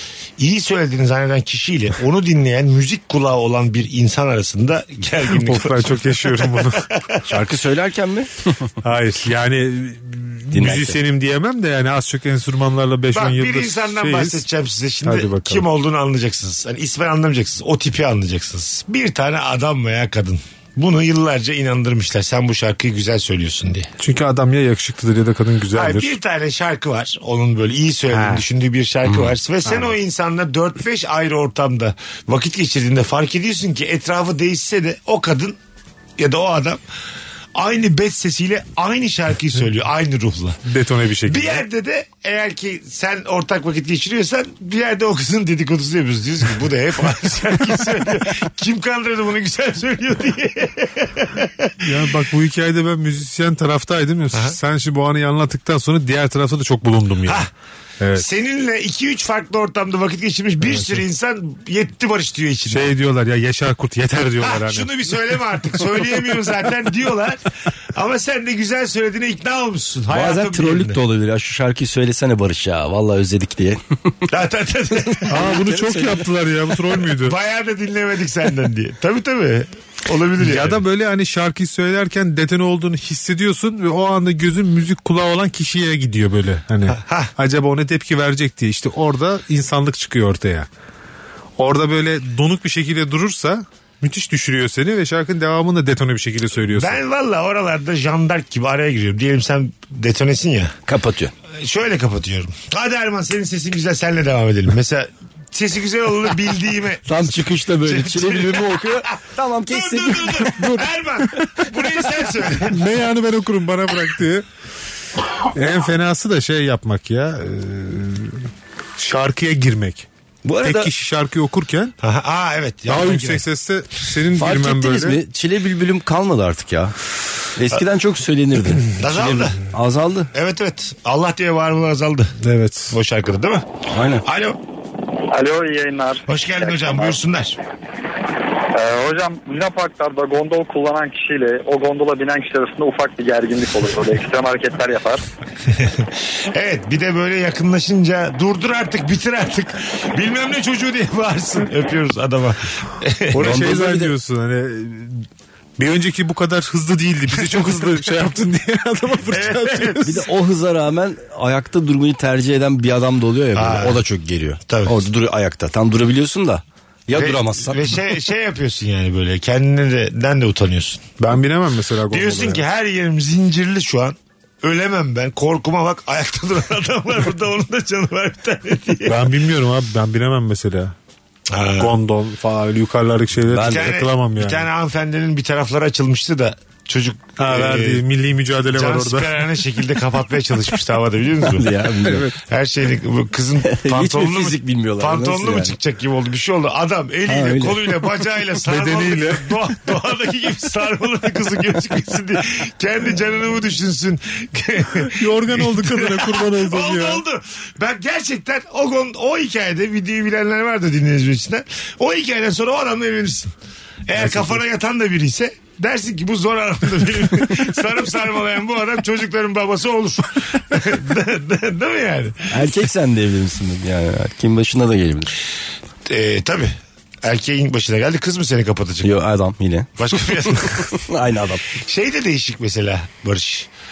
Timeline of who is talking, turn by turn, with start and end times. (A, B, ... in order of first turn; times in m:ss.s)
0:00.4-0:07.2 A
0:05.3-0:06.9 B
0:07.3-0:08.5 C
0:08.8-0:14.4 B
0:10.5-0:11.0 C
0:13.1-0:23.9 A
0:15.0-0:15.7 B
0:24.0-0:26.1 B
0:25.7-0:35.6 A
0:28.1-0:28.4 B
0:29.7-0:29.9 B
0:36.2-0:36.8 A
0:37.6-0:40.6 A
0:40.6-0:41.6 B
0:41.3-0:51.8 A
0:51.8-0:57.5 B
0:58.0-0:58.3 B
0:58.2-1:02.9 A
1:00.6-1:01.0 B
1:02.7-1:04.9 B
1:04.4-1:11.0 A
1:10.1-1:14.3 C
1:14.3-1:15.5 A
1:15.1-1:16.2 C
1:15.3-1:17.4 B
1:17.2-1:20.8 A
1:20.4-1:30.7 B
1:26.9-1:27.3 A
1:31.6-1:37.0 B
1:36.7-1:40.7 A
1:40.9-1:41.3 C
1:41.5-1:52.8 A
1:47.0-1:50.9 C
1:52.6-1:54.4 B
1:55.4-2:00.1 B
2:00.4-2:00.9 C
2:00.6-2:01.9 B
2:02.0-2:03.5 A
2:02.9-2:05.2 B
2:04.4-2:07.0 C
2:07.6-2:10.3 C
2:08.8-2:09.6 A
2:10.3-2:12.4 A
2:12.4-2:13.0 B
2:12.9-2:13.6 A
2:13.9-2:14.2 C
2:14.2-2:14.6 A
2:15.3-2:17.2 D
2:16.3-2:17.6 A
2:18.7-2:25.2 D
2:25.7-2:33.5 A
2:33.3-2:35.3 B
2:33.4-2:34.1 C
2:35.8-2:40.3 B
2:37.4-2:38.0 A
2:39.3-2:40.2 A
2:40.0-2:47.8 C
2:43.6-2:44.0 A
2:44.7-2:45.0 A
2:47.1-2:51.1 A
2:51.2-2:52.6 B
2:52.1-2:59.3 A
2:59.1-3:01.0 B
3:01.5-3:02.0 A
3:01.8-3:04.7 B
3:03.5-3:03.9 C
3:03.6-3:08.0 A
3:07.4-3:09.4 B
3:08.7-3:33.5 A
3:11.5-3:12.4 C
3:13.6-3:15.8 C
3:17.3-3:17.9 C
3:18.6-3:19.6 B
3:25.1-3:27.2 B
3:34.1-3:42.5 A
3:34.2-3:34.6 B
3:42.5-3:45.3 C
3:46.1-3:49.1 A
3:49.0-3:51.8 C
3:50.0-3:50.9 A
3:51.8-3:53.7 A